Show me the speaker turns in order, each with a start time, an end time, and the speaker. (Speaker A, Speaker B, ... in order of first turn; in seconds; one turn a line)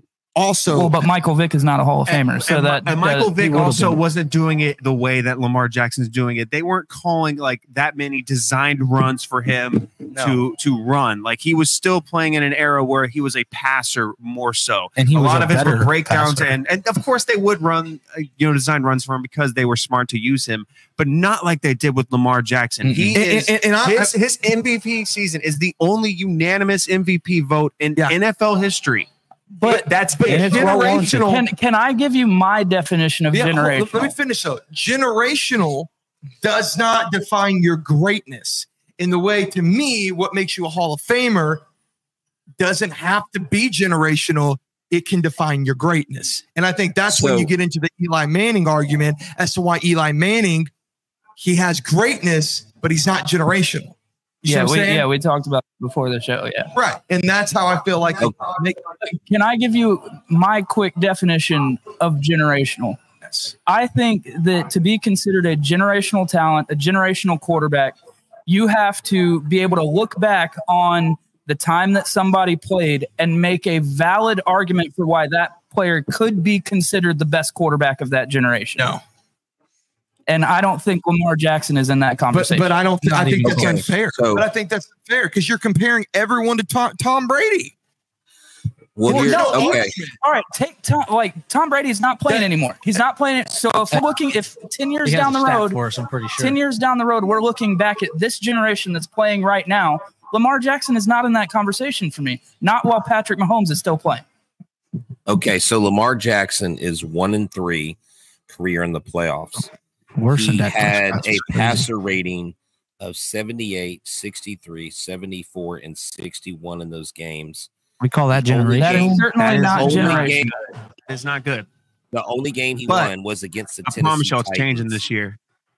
Speaker A: 0.4-1.1
Speaker B: 0.7-4.0
Speaker C: 2.1-29.1
Speaker D: 10.1-10.4
Speaker D: 15.0-16.5
Speaker D: 22.8-23.2
Speaker A: 23.1-24.1
Speaker A: 29.6-31.5
Speaker C: 29.6-31.1
Speaker D: 30.2-31.3
Speaker B: 31.2-34.1
Speaker A: 33.3-35.9
Speaker A: 36.4-41.6
Speaker A: 42.6-50.7
Speaker E: 47.1-47.5
Speaker A: 51.4-55.1
Speaker B: 54.5-56.7
Speaker A: 56.7-58.8
Speaker B: 59.1-63.0
Speaker A: 63.3-63.5
Speaker B: 63.7-68.0
Speaker B: 68.5-79.0
Speaker A: 78.8-79.0
Speaker B: 80.3-82.7
Speaker A: 82.3-87.7
Speaker D: 83.0-83.8
Speaker E: 83.4-84.5
Speaker E: 89.0-90.0
Speaker A: 89.0-90.2
Speaker B: 89.1-95.8
Speaker D: 95.0-96.6
Speaker B: 96.4-104.2
Speaker E: 105.3-109.7
Speaker D: 110.2-111.9
Speaker E: 110.3-117.7
Speaker D: 118.0-119.3
Speaker E: 118.3-120.5
Speaker B: 118.8-120.5
Speaker C: 119.4-121.7
Speaker E: 122.1-125.0
Speaker C: 122.9-123.1
Speaker C: 123.8-125.4